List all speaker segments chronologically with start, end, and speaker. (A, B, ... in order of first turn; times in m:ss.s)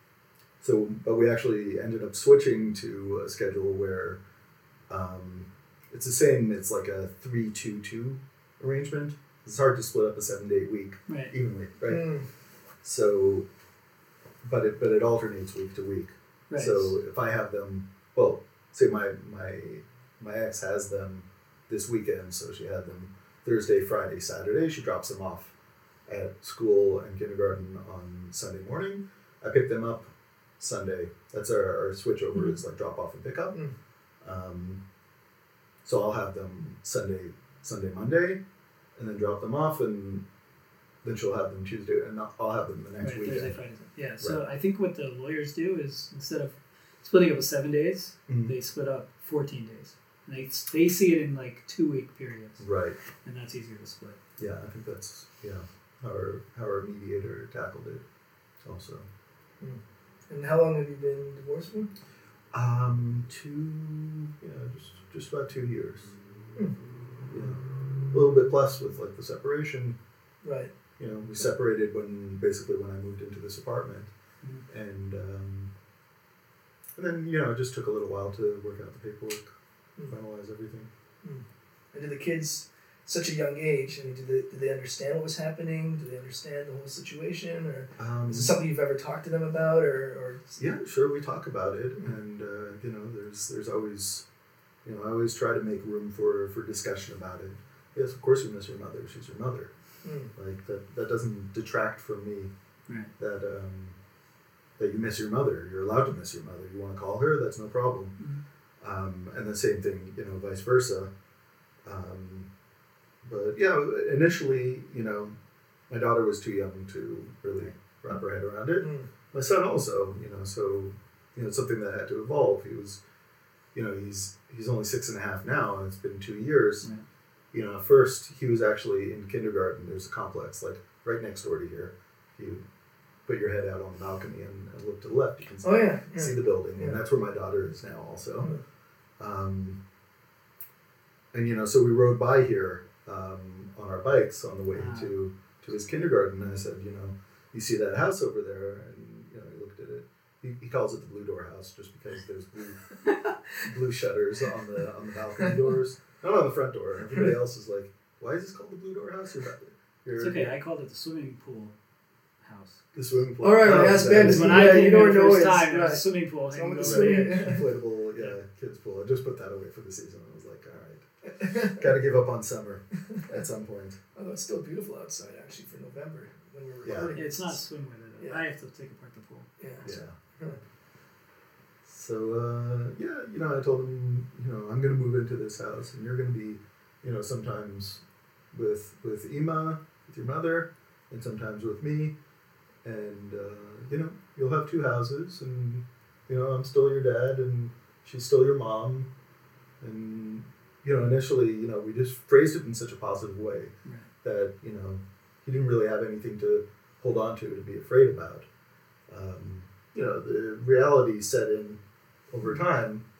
0:00.6-0:04.2 A
0:04.9-0:12.1 A
0:11.1-0:11.3 B
0:11.9-0:12.3 C
0:12.8-0:13.4 A
0:14.4-0:25.5 A
0:16.5-0:16.9 B
0:26.1-0:33.6 A
0:34.2-0:34.8 A
0:35.8-0:38.4 A
0:39.0-0:40.2 A
0:41.0-0:43.5 A
0:43.0-0:52.6 B
0:48.3-0:48.5 A
0:52.6-0:53.0 A
0:53.2-0:54.2 B
0:54.4-0:58.0 A
0:58.6-0:59.1 A
0:59.6-1:01.9 C
1:02.5-1:06.1 A
1:07.3-1:10.0 A
1:10.4-1:10.7 C
1:11.0-1:14.1 A
1:14.7-1:15.7 A
1:17.0-1:19.5 A
1:20.1-1:20.9 A
1:21.2-1:30.6 C
1:28.0-1:28.5 A
1:30.6-1:34.2 A
1:34.8-1:39.7 A
1:40.0-1:40.3 C
1:40.3-1:42.5 A
1:43.2-1:44.0 A
1:44.8-1:48.2 A
1:48.8-1:51.1 A
1:51.8-1:52.5 A
1:53.2-1:55.3 A
1:55.9-2:03.0 A
1:58.8-1:59.1 C
2:03.7-2:06.9 A
2:07.5-2:12.6 A
2:13.2-2:18.5 A
2:15.6-2:17.0 C
2:19.2-2:19.8 A
2:21.3-2:32.9 A
2:24.7-2:25.1 B
2:33.6-2:40.5 A
2:40.2-2:41.8 B
2:42.4-2:43.1 B
2:42.9-2:45.0 A
2:43.4-2:47.6 C
2:44.1-2:47.6 B
2:46.8-2:54.0 A
2:51.3-2:51.8 C
2:53.1-2:53.4 C
2:54.1-2:57.6 C
2:56.8-2:57.1 A
2:57.1-3:00.0 B
2:59.6-2:59.8 C
2:59.8-3:00.2 A
3:01.8-3:12.2 A
3:12.8-3:19.1 A
3:19.8-3:28.5 A
3:29.1-3:33.0 A